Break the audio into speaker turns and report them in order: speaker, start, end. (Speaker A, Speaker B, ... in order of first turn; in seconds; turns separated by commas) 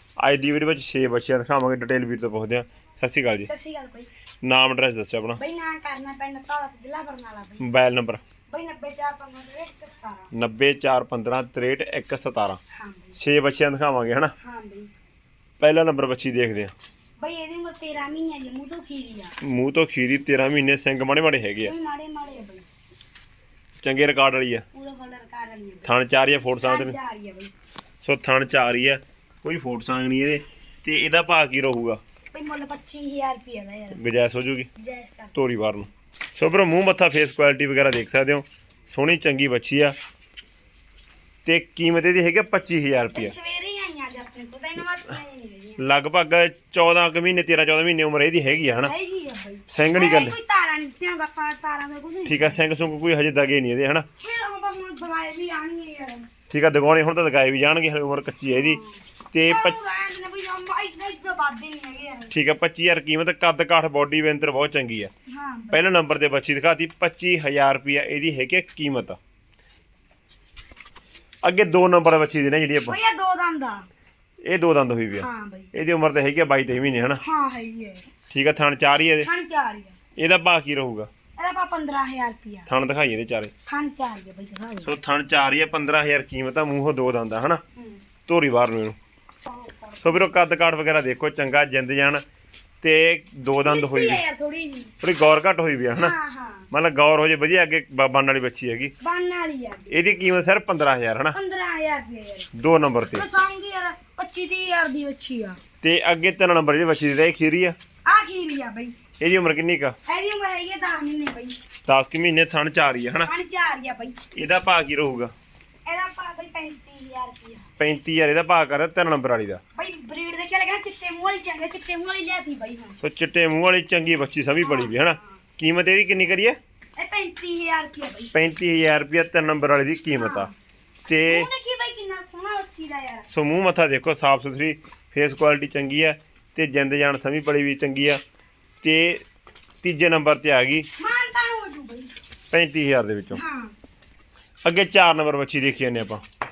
Speaker A: 0.2-3.5, Speaker B: 3.5-4.1, Speaker A: 4.4-5.4, Speaker B: 5.4-7.7, Speaker A: 7.6-8.2, Speaker B: 8.5-10.3, Speaker A: 10.3-12.6, Speaker B: 12.7-13.2, Speaker A: 13.1-14.3, Speaker B: 14.4-14.9, Speaker A: 15.6-16.7, Speaker B: 17.2-19.4, Speaker A: 19.4-21.7, Speaker B: 21.6-22.7, Speaker A: 23.8-24.6, Speaker B: 24.7-25.9, Speaker A: 25.8-26.9, Speaker B: 26.6-27.5, Speaker A: 28.0-32.0, Speaker B: 32.3-34.0, Speaker A: 33.9-34.7, Speaker B: 34.8-35.3, Speaker A: 35.3-39.9, Speaker A: 41.4-43.3, Speaker B: 43.1-45.8, Speaker A: 45.8-48.9, Speaker B: 48.8-52.6, Speaker A: 49.7-50.4, Speaker A: 52.3-54.1, Speaker B: 54.2-56.3, Speaker A: 56.5-58.8, Speaker B: 58.5-62.3, Speaker A: 59.3-59.7, Speaker A: 62.3-65.1, Speaker B: 65.3-65.8, Speaker A: 65.7-69.2, Speaker A: 71.4-73.0, Speaker B: 72.8-73.9, Speaker A: 74.4-77.2, Speaker B: 75.1-75.7, Speaker B: 77.2-78.1, Speaker A: 78.3-79.3, Speaker B: 79.2-80.0, Speaker A: 80.2-81.1, Speaker B: 81.4-82.7, Speaker A: 82.7-83.5, Speaker B: 83.7-84.9, Speaker A: 84.8-87.6, Speaker B: 87.8-88.0, Speaker A: 88.3-89.0, Speaker B: 89.4-90.2, Speaker A: 90.0-92.2, Speaker A: 92.8-94.2, Speaker B: 93.6-94.9, Speaker A: 95.0-96.1, Speaker B: 96.0-96.7, Speaker A: 96.7-98.9, Speaker B: 99.0-100.0, Speaker A: 99.9-101.4, Speaker B: 101.3-102.5, Speaker A: 102.5-103.2, Speaker B: 103.1-105.6, Speaker A: 105.8-107.8, Speaker B: 108.0-109.0, Speaker A: 109.2-110.0, Speaker B: 110.0-111.6, Speaker A: 111.9-113.3, Speaker B: 113.2-114.2, Speaker A: 114.3-115.3, Speaker B: 115.8-117.7, Speaker A: 117.8-119.6, Speaker B: 119.8-123.0, Speaker A: 123.0-126.6, Speaker B: 124.6-125.4, Speaker B: 127.0-128.3, Speaker A: 128.3-130.5, Speaker B: 130.1-130.6, Speaker A: 131.1-131.5, Speaker B: 131.2-133.3, Speaker A: 133.3-138.2, Speaker A: 138.8-139.2, Speaker A: 139.8-140.9, Speaker B: 140.9-142.1, Speaker A: 142.5-143.4, Speaker B: 143.3-143.7, Speaker A: 144.6-146.2